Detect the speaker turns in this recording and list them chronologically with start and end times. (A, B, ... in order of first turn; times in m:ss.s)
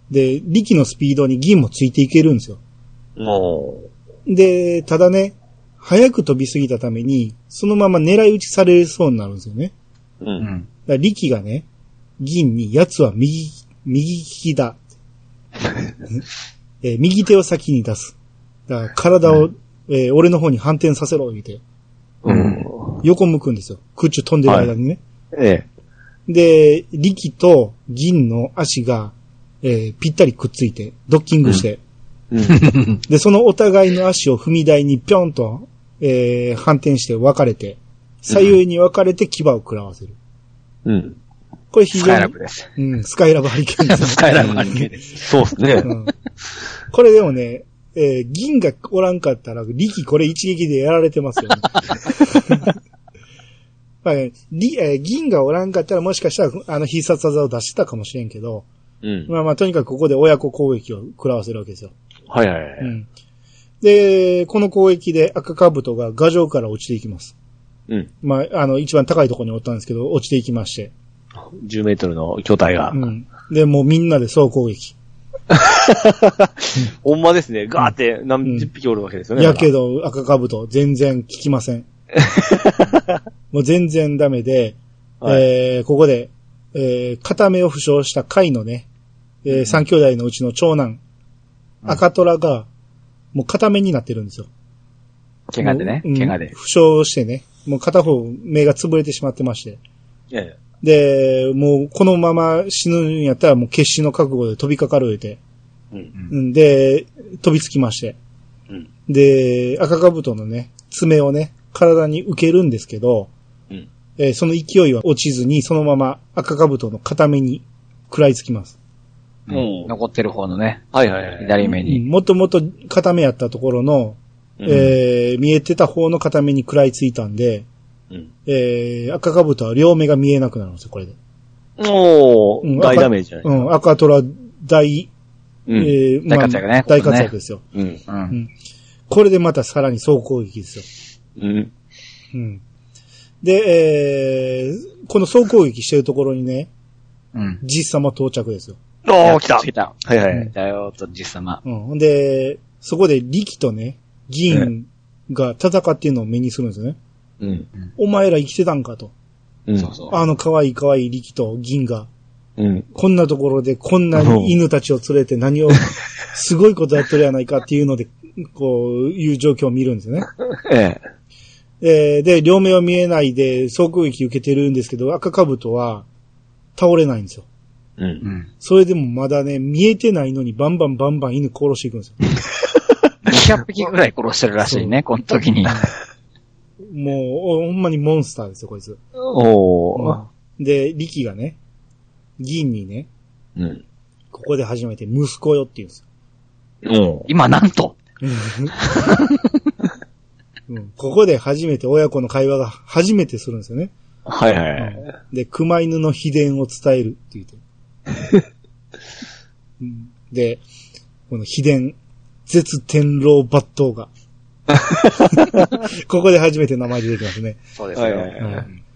0:00.1-0:02.6 A
0:03.2-0:03.9 B
0:04.3-0:09.7 A
0:10.2-0:10.5 B
0:10.4-0:10.6 C
0:10.9-0:11.6 A
0:12.2-0:14.8 A
0:16.8-0:18.2 A
0:18.7-0:21.6 A
0:22.2-0:23.0 B
0:22.3-0:25.0 A
0:24.4-0:24.7 B
0:25.3-0:25.6 B
0:26.3-0:31.8 A
0:32.3-0:32.6 B
0:32.5-0:33.0 C
0:33.0-0:40.2 A
0:40.8-0:41.2 B
0:41.7-0:44.8 A
0:41.9-0:42.7 C
0:43.9-0:45.3 C
0:44.4-0:45.9 B
0:45.8-0:46.1 A
0:46.9-0:52.7 A
0:54.0-0:58.7 A
0:59.0-0:59.3 B
0:59.3-1:01.9 A
1:02.3-1:02.9 B
1:02.8-1:03.1 A
1:03.8-1:07.3 A
1:08.2-1:10.9 A
1:11.5-1:13.0 B
1:12.9-1:15.0 A
1:15.5-1:19.7 B
1:18.4-1:18.7 A
1:19.4-1:21.8 A
1:22.2-1:23.2 B
1:23.5-1:28.8 A
1:29.4-1:31.0 A
1:31.8-1:32.7 A
1:33.3-1:34.5 A
1:35.5-1:36.5 C
1:35.6-1:39.8 A
1:40.3-1:40.6 B
1:40.8-1:45.4 A
1:46.3-1:48.2 A
1:49.1-1:53.3 A
1:54.2-1:58.7 A
1:59.5-2:00.9 C
1:59.5-1:59.9 B
2:00.9-2:01.6 B
2:01.4-2:02.0 C
2:01.6-2:07.6 A
2:04.6-2:04.9 B
2:08.4-2:11.2 A
2:11.8-2:13.5 B
2:12.6-2:15.1 A
2:15.7-2:15.9 B
2:15.7-2:17.6 A
2:16.3-2:17.3 C
2:17.7-2:18.0 B
2:18.1-2:18.3 C
2:19.1-2:20.8 A
2:21.4-2:21.7 B
2:22.3-2:22.6 A
2:23.4-2:26.7 A
2:27.3-2:27.6 C
2:27.6-2:28.8 A
2:29.0-2:30.5 B
2:29.2-2:31.6 C
2:31.6-2:37.0 A
2:37.4-2:37.7 B
2:38.0-2:39.1 A
2:39.7-2:39.9 B
2:39.8-2:40.1 C
2:40.1-2:42.1 A
2:42.6-2:42.8 B
2:42.9-2:50.3 A
2:44.1-2:44.5 B
2:50.4-2:51.0 B
2:51.8-2:56.0 A
2:56.8-2:57.4 A
2:58.0-2:58.2 B
2:58.6-3:02.2 A
3:03.2-3:05.9 C
3:04.6-3:05.0 A
3:06.9-3:09.0 A
3:09.2-3:10.2 B
3:09.9-3:11.6 A
3:12.4-3:13.1 A
3:13.6-3:13.8 B
3:14.3-3:16.0 A
3:16.8-3:17.3 B
3:17.3-3:18.0 C
3:18.2-3:18.8 A
3:18.8-3:19.5 C
3:20.7-3:23.9 A
3:24.2-3:25.0 B
3:24.8-3:27.6 A
3:29.8-3:30.6 A
3:31.3-3:32.0 A
3:32.5-3:34.1 A
3:34.8-3:35.4 B
3:35.4-3:37.6 A
3:37.8-3:38.5 C
3:37.9-3:38.6 B
3:38.4-3:38.6 A